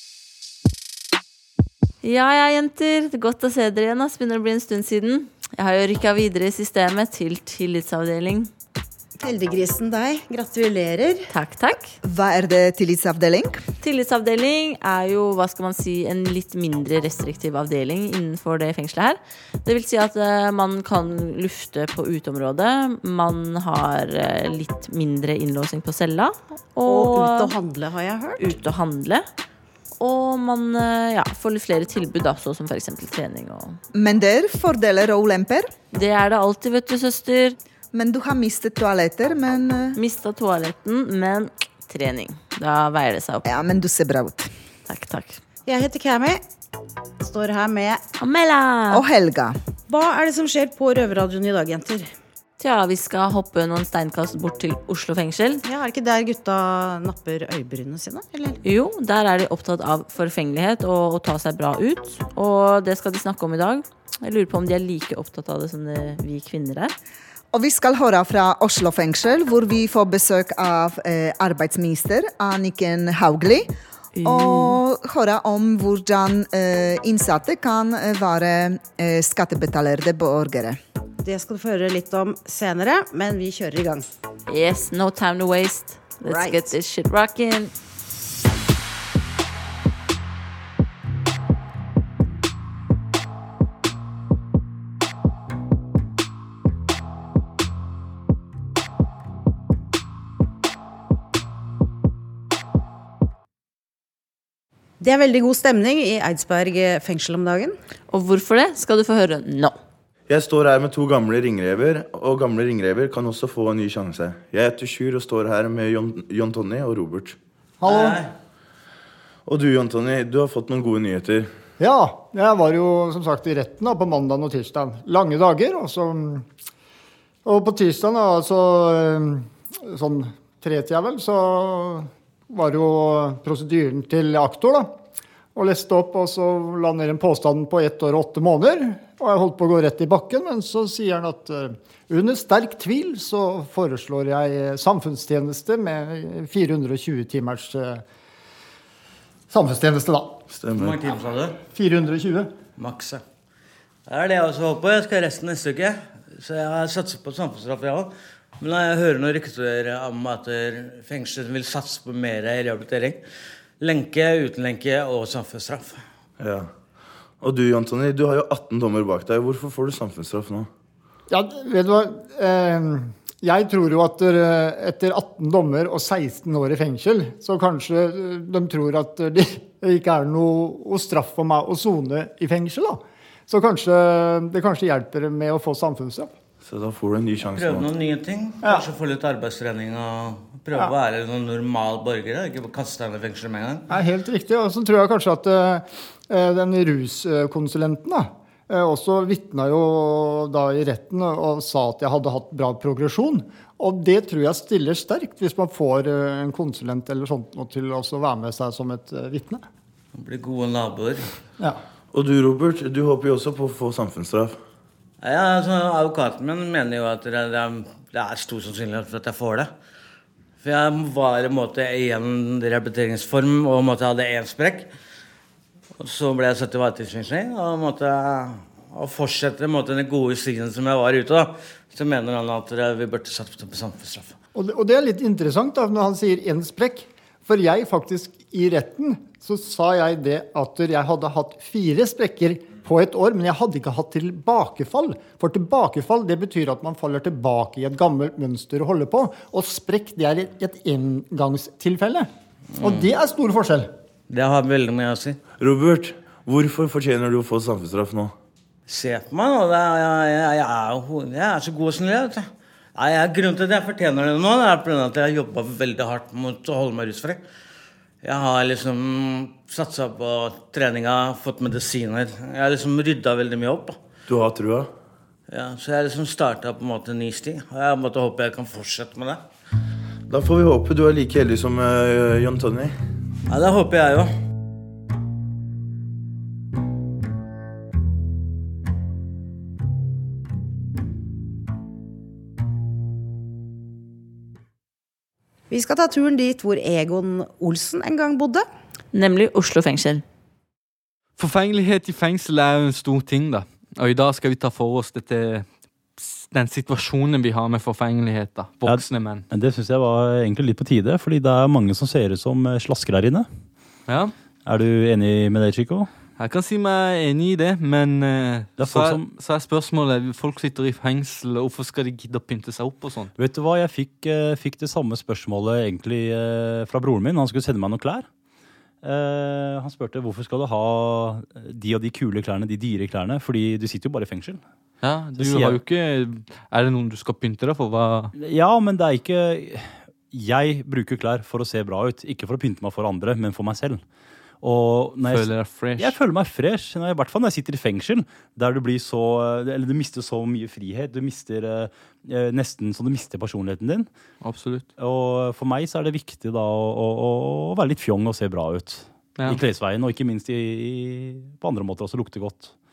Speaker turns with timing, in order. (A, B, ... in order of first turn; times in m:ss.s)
0:02.0-0:08.5 A
0:09.2-0:11.3 B
0:11.3-0:11.9 A
0:12.0-0:13.6 C
0:13.8-0:27.5 A
0:26.9-0:28.4 B
0:28.4-0:29.2 A
0:30.0-0:33.8 A
0:33.9-0:35.7 C
0:35.9-0:37.6 A
0:37.9-0:39.9 C
0:40.0-0:43.4 A
0:43.4-0:44.5 C
0:44.9-0:45.4 A
0:45.7-0:46.4 B
0:47.2-0:48.0 B
0:48.2-0:49.0 A
0:48.9-0:49.6 C
0:49.9-0:52.1 B
0:52.6-0:55.6 A
0:55.6-0:58.6 B
0:58.6-1:06.9 A
1:07.5-1:13.7 C
1:14.1-1:14.8 A
1:14.2-1:20.8 C
1:21.2-1:24.0 B
1:24.5-1:27.7 A
1:45.0-1:47.7 B
1:48.1-1:49.8 A
1:50.3-1:57.4 D
1:57.8-1:58.2 E
1:57.8-1:58.3 F
1:59.4-2:01.5 D
2:01.8-2:06.4 E
2:07.4-2:15.0 E
2:15.5-2:28.0 E
2:29.5-2:30.4 E
2:30.5-2:31.0 D
2:30.7-2:31.6 F
2:31.7-2:32.5 E
2:32.8-2:33.2 F
2:34.1-2:43.2 F
2:43.8-2:46.0 F
2:46.4-2:46.7 D
2:47.4-2:50.7 D
2:51.3-3:06.3 E
3:06.6-3:07.9 D
3:07.5-3:13.8 F
3:13.9-3:29.6 E
3:30.1-3:31.3 F
3:32.1-3:34.6 D
3:35.2-3:39.7 F
3:40.6-3:44.9 F
3:46.0-3:54.3 F
3:54.5-4:13.9 E
4:14.3-4:15.4 F
4:15.6-4:18.3 D
4:18.9-4:27.4 F
4:28.2-4:34.0 F
4:34.3-4:34.9 D
4:35.5-4:39.4 F
4:40.3-4:42.9 D
4:43.5-4:44.3 F
4:55.7-4:58.6 B
4:59.1-5:00.2 A
5:01.4-5:05.7 G
5:06.2-5:09.4 G
5:08.8-5:13.5 H
5:14.1-5:14.3 G
5:14.6-5:16.1 H
5:16.4-5:23.3 G
5:18.8-5:19.3 H
5:23.4-5:28.3 H
5:29.0-5:34.6 H
5:35.0-5:38.3 G
5:35.4-5:35.8 H
5:38.4-5:44.0 H
5:44.6-5:54.1 H
5:45.2-5:46.2 G
5:54.4-5:54.8 G
5:55.0-6:02.7 H